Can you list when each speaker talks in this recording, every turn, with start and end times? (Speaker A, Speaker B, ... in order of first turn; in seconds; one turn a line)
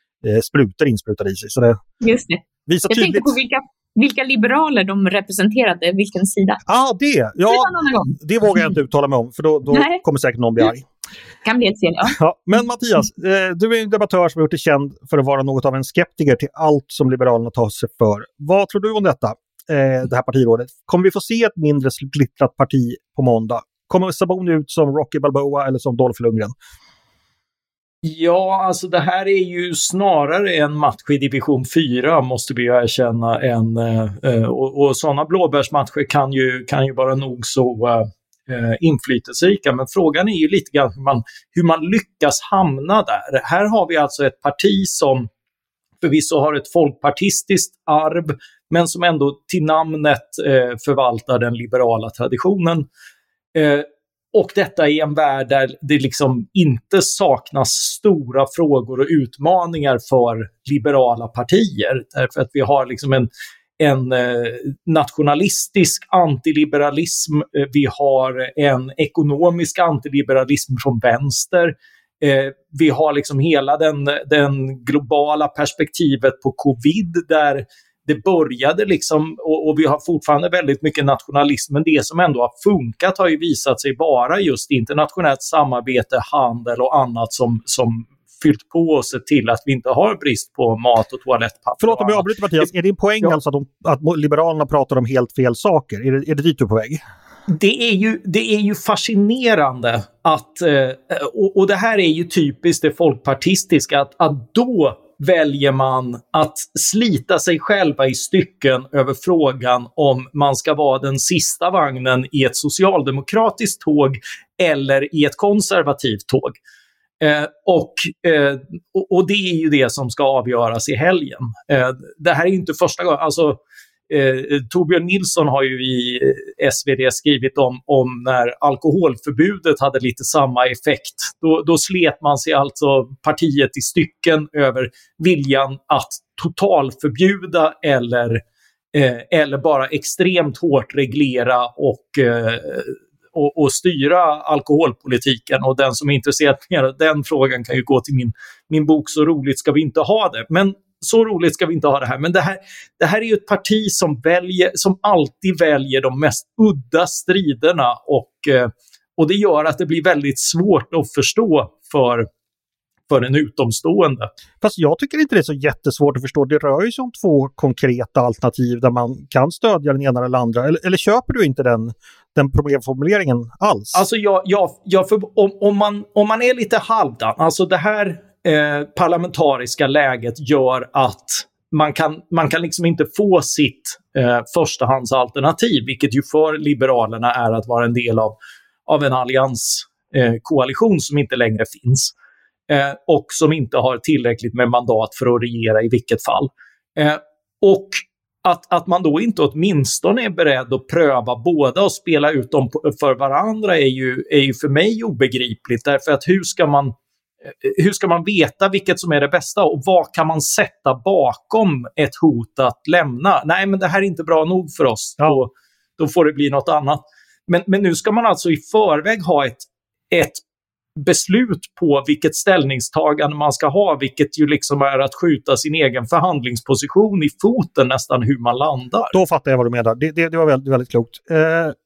Speaker A: 0.2-1.8
Speaker B: 2.0-6.6
Speaker A: 2.7-3.3
Speaker A: 6.7-10.9
Speaker B: 7.5-8.1
Speaker B: 9.7-10.0
Speaker B: 11.4-12.2
Speaker A: 12.1-26.5
Speaker C: 28.0-45.3
Speaker C: 46.0-52.9
Speaker C: 53.5-92.7
Speaker A: 91.8-97.0
Speaker C: 97.5-116.6
Speaker C: 117.2-138.4
Speaker C: 138.9-162.3
Speaker C: 163.1-164.3
Speaker A: 164.6-174.0
Speaker C: 173.9-188.3
Speaker C: 188.9-192.1
Speaker C: 192.7-206.9
Speaker C: 207.6-220.4
Speaker C: 221.0-229.1
Speaker A: 229.1-231.7